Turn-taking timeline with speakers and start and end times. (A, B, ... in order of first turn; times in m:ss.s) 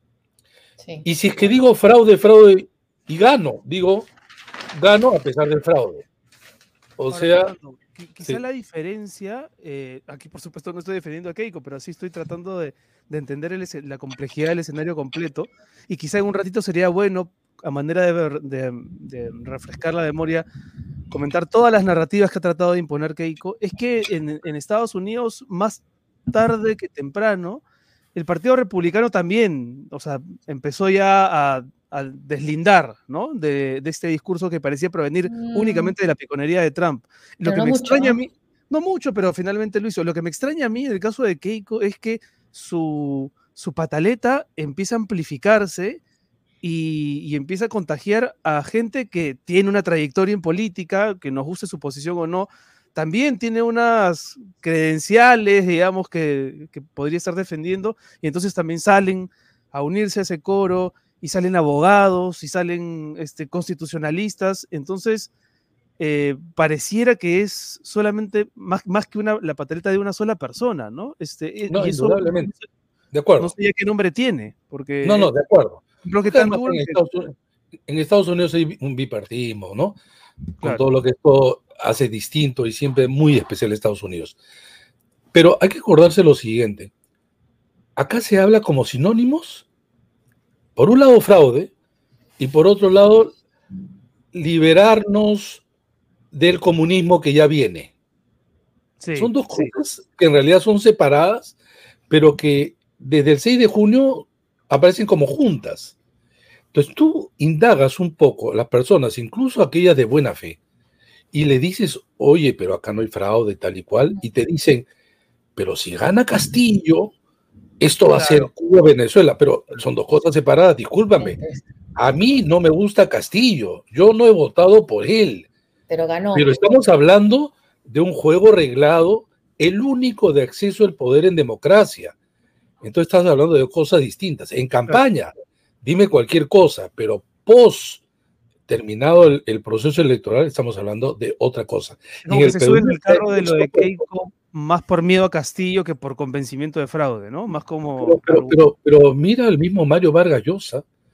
0:00.8-0:01.1 A
0:01.0-0:04.1 B
0:04.7-0:06.0 B
0:07.0-0:07.5 B
0:07.1-0:20.4 C
0:21.1-0:27.6 C
0:28.1-0:46.0 C
0:35.3-0:35.9 A
0:37.4-0:38.2 A
0:46.6-1:05.3 C
1:06.0-1:12.6 C
1:11.7-1:12.5 B
1:13.1-1:13.5 B
1:13.4-1:15.3 C
1:15.0-1:17.3 B
1:16.0-1:17.0 C
1:17.9-1:20.0 B
1:20.6-1:24.4 B
1:25.3-1:26.9 B
1:28.0-1:29.6 B
1:30.8-1:31.7 B
1:32.4-1:33.3 B
1:34.3-1:35.6 B
1:36.3-1:37.9 B
1:39.0-1:39.7 C
1:39.2-1:41.5 B
1:42.1-1:45.9 B
1:46.7-1:50.6 B
1:51.3-1:54.9 B
1:55.6-1:57.1 B
1:57.8-2:01.4 B
1:58.1-1:58.5 C
2:01.2-2:01.6 A
2:02.0-2:05.5 B
2:05.9-2:06.6 A
2:06.3-2:12.1 B
2:12.8-2:18.0 B
2:18.7-2:24.0 B
2:22.2-2:28.6 C
2:28.0-2:30.8 B